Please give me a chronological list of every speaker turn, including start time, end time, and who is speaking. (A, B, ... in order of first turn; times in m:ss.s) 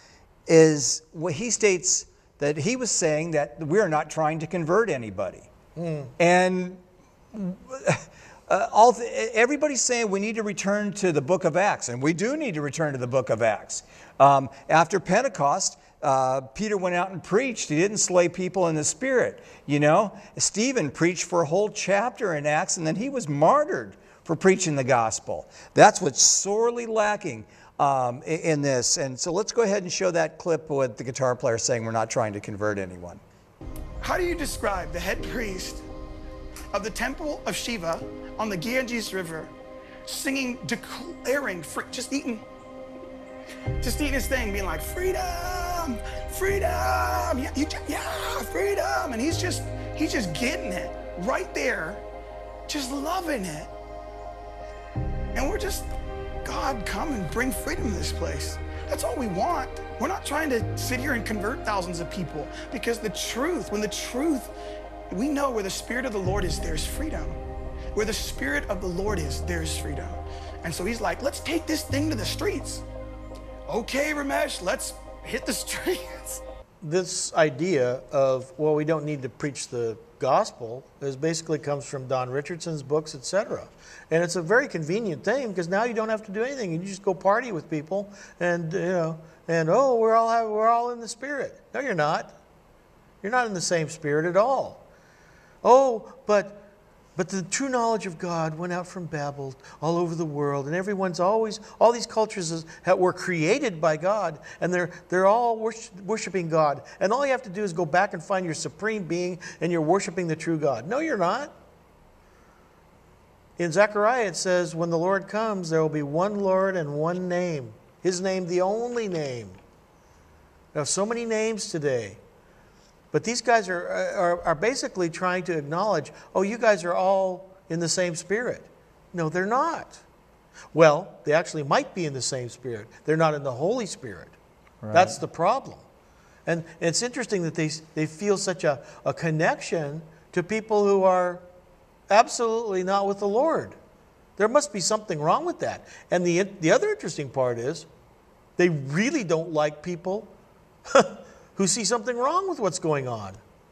0:00.5-0:05.5 A
0:05.8-0:06.1 B
0:06.2-0:06.8 A
0:07.3-0:33.2 A
0:34.0-0:35.8 C
0:36.7-0:39.5 C
0:40.1-0:42.4 C
0:43.8-0:52.0 C
0:52.7-0:53.7 C
0:55.3-0:55.9 C
0:56.4-1:04.5 C
1:05.1-1:07.4 C
1:07.9-1:12.8 C
1:13.7-1:16.4 C
1:16.8-1:32.4 B
1:33.2-1:34.8 B
1:35.6-1:51.5 B
1:53.6-1:59.6 B
2:00.7-2:02.2 B
2:03.1-2:10.0 B
2:10.7-2:14.4 B
2:14.8-2:15.2 A
2:14.9-2:15.8 B
2:16.5-2:21.4 B
2:22.1-2:23.8 B
2:24.4-2:27.9 B
2:28.6-2:30.3 B
2:30.9-2:33.4 B